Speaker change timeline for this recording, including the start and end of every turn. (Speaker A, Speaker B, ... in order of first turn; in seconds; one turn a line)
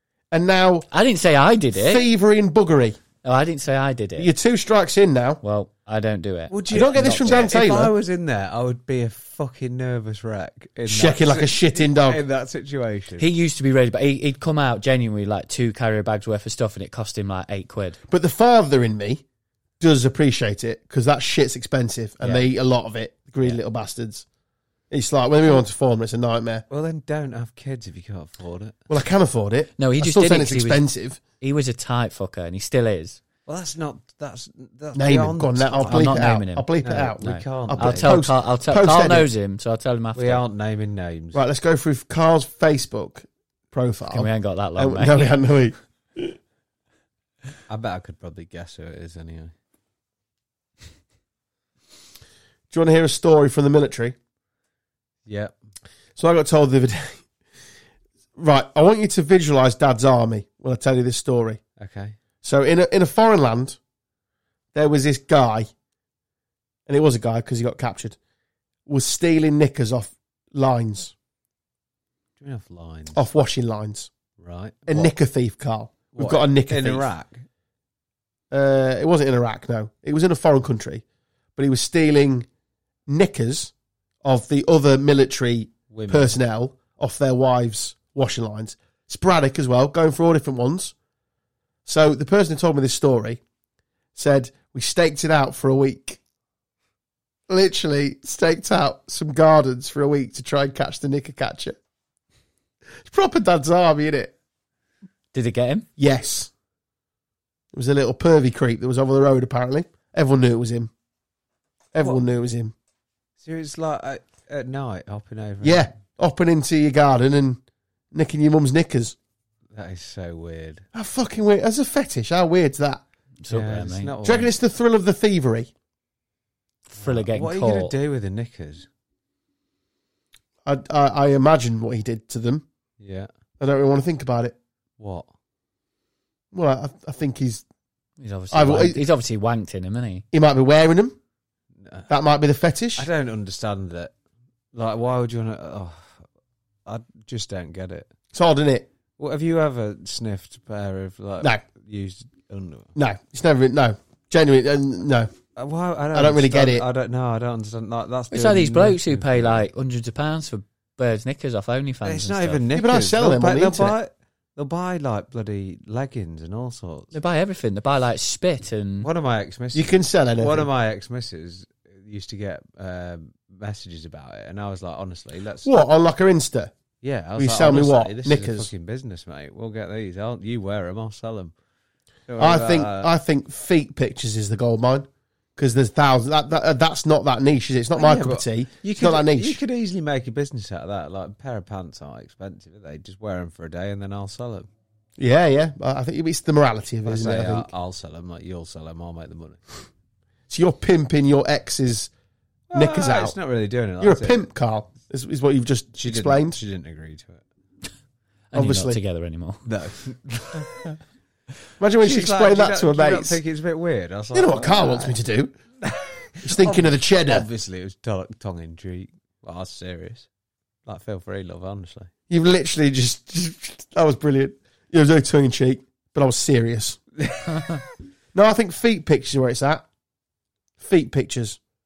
Speaker A: 0.3-0.8
Speaker B: 0.9-2.0
Speaker A: 1.7-3.0
Speaker B: 3.2-4.3
Speaker A: 4.2-5.4
Speaker B: 5.4-7.4
Speaker C: 6.5-13.3
Speaker A: 6.7-7.9
Speaker A: 10.9-12.2
Speaker B: 13.2-18.0
Speaker A: 18.1-19.2
Speaker A: 19.8-24.2
Speaker B: 22.2-22.5
Speaker A: 24.9-26.6
Speaker C: 26.7-28.8
Speaker A: 28.9-31.2
Speaker B: 29.8-30.9
Speaker B: 31.4-33.2
Speaker C: 33.5-36.2
Speaker A: 34.9-39.3
Speaker B: 35.9-36.7
Speaker C: 36.8-38.2
Speaker B: 37.2-40.4
Speaker C: 40.1-41.4
Speaker A: 41.3-46.4
Speaker B: 44.1-45.3
Speaker C: 47.7-49.5
Speaker A: 52.7-54.1
Speaker C: 55.2-55.5
Speaker A: 56.2-57.2
Speaker A: 58.4-61.6
Speaker C: 61.8-62.1
Speaker A: 62.4-63.8
Speaker A: 64.7-65.7
Speaker A: 66.9-68.2
Speaker A: 68.8-71.1
Speaker C: 72.4-73.2
Speaker A: 73.1-74.1
Speaker C: 74.4-75.1
Speaker A: 74.9-77.1
Speaker C: 76.1-77.4
Speaker A: 78.5-81.0
Speaker A: 81.5-82.5
Speaker A: 83.1-90.9
Speaker C: 85.9-86.4
Speaker A: 91.8-93.4
Speaker A: 94.1-96.2
Speaker A: 97.5-101.8
Speaker A: 103.0-104.3
Speaker B: 105.3-105.8
Speaker A: 106.0-106.5
Speaker A: 107.7-110.9
Speaker A: 111.9-112.7
Speaker C: 113.4-115.9
Speaker A: 115.6-117.6
Speaker A: 118.1-119.2
Speaker C: 119.7-120.8
Speaker A: 120.9-123.0
Speaker B: 123.4-124.1
Speaker C: 123.5-124.5
Speaker A: 124.2-125.7
Speaker B: 126.9-127.9
Speaker C: 127.0-128.9
Speaker A: 130.6-132.6
Speaker C: 133.0-133.3
Speaker A: 133.6-134.6
Speaker C: 135.0-135.3
Speaker A: 136.5-137.6
Speaker B: 138.2-140.2
Speaker A: 138.5-139.0
Speaker A: 140.3-141.2
Speaker C: 141.8-142.1
Speaker A: 142.1-143.1
Speaker C: 143.0-144.1
Speaker C: 144.7-146.2
Speaker C: 146.8-148.1
Speaker A: 148.3-148.9
Speaker C: 149.2-152.9
Speaker A: 152.9-155.3
Speaker C: 155.6-159.6
Speaker A: 156.1-156.8
Speaker B: 158.3-162.6
Speaker C: 162.0-167.1
Speaker A: 162.7-163.9
Speaker B: 167.1-169.1
Speaker C: 169.0-175.8
Speaker A: 169.7-170.7
Speaker A: 175.6-176.7
Speaker C: 177.0-181.5
Speaker A: 177.3-178.7
Speaker C: 182.3-183.1
Speaker A: 182.4-189.6
Speaker C: 187.9-194.7
Speaker A: 195.2-197.7
Speaker C: 197.0-199.6
Speaker A: 200.5-202.1
Speaker C: 202.7-204.4
Speaker A: 202.7-203.4
Speaker A: 204.0-206.6
Speaker C: 205.9-207.4
Speaker B: 208.5-209.7
Speaker A: 208.5-209.0
Speaker C: 209.6-210.8
Speaker A: 211.8-213.4
Speaker C: 212.0-215.2
Speaker A: 214.3-215.5
Speaker C: 215.8-220.3
Speaker A: 216.4-217.5
Speaker C: 220.8-222.1
Speaker A: 222.3-227.0
Speaker C: 227.2-227.6
Speaker A: 228.3-229.8
Speaker A: 230.8-231.6